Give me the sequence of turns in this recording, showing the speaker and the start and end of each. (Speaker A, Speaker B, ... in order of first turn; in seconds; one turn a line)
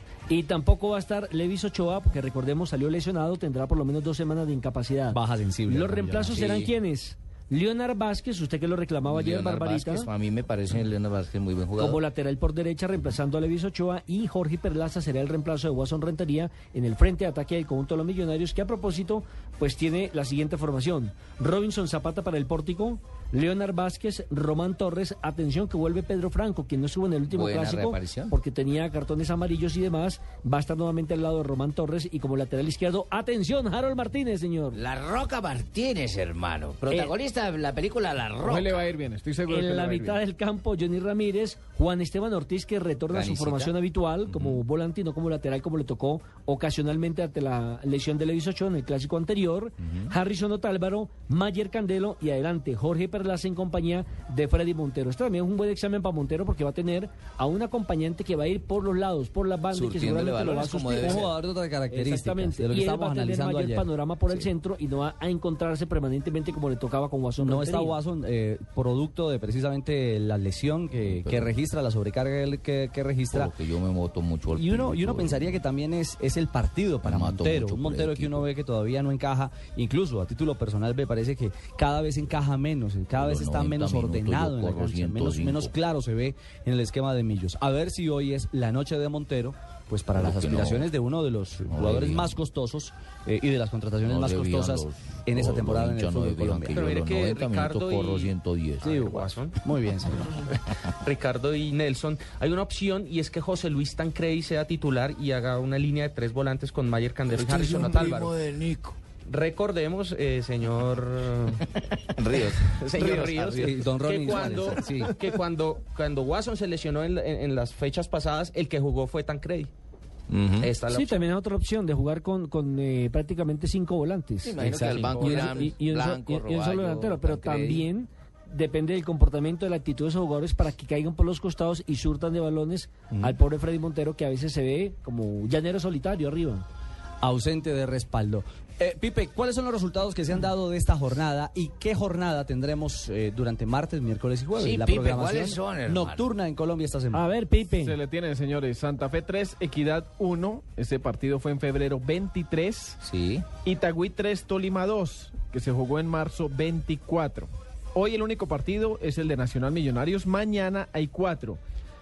Speaker A: 0.3-10.1
Speaker B: 5.1-6.3
Speaker C: 6.3-6.7
Speaker C: 9.1-12.0
Speaker A: 11.8-34.8
Speaker D: 27.3-28.4
Speaker D: 34.7-38.9
Speaker A: 36.9-37.1
Speaker E: 38.4-40.2
Speaker A: 39.5-61.3
Speaker D: 43.1-43.7
Speaker C: 44.3-44.6
Speaker C: 59.8-61.3
Speaker B: 61.0-63.9
Speaker A: 61.9-68.0
Speaker B: 67.4-73.6
Speaker C: 70.9-71.6
Speaker C: 73.3-75.6
Speaker B: 74.5-96.8
Speaker C: 77.0-78.5
Speaker C: 83.2-85.7
Speaker C: 90.2-90.9
Speaker C: 91.7-92.4
Speaker C: 94.0-99.0
Speaker F: 96.7-99.5
Speaker B: 98.8-100.4
Speaker F: 100.5-108.3
Speaker C: 107.3-108.9
Speaker D: 108.5-108.9
Speaker F: 109.3-111.7
Speaker C: 112.2-113.6
Speaker F: 112.6-119.7
Speaker B: 113.3-115.2
Speaker C: 120.3-120.7
Speaker F: 120.6-121.3
Speaker A: 120.9-124.6
Speaker C: 124.5-127.9
Speaker B: 124.6-125.6
Speaker A: 125.2-136.7
Speaker D: 126.2-126.5
Speaker B: 137.2-147.3
Speaker D: 144.6-146.2
Speaker A: 147.1-148.0
Speaker E: 147.8-153.0
Speaker D: 153.1-153.5
Speaker E: 153.5-161.6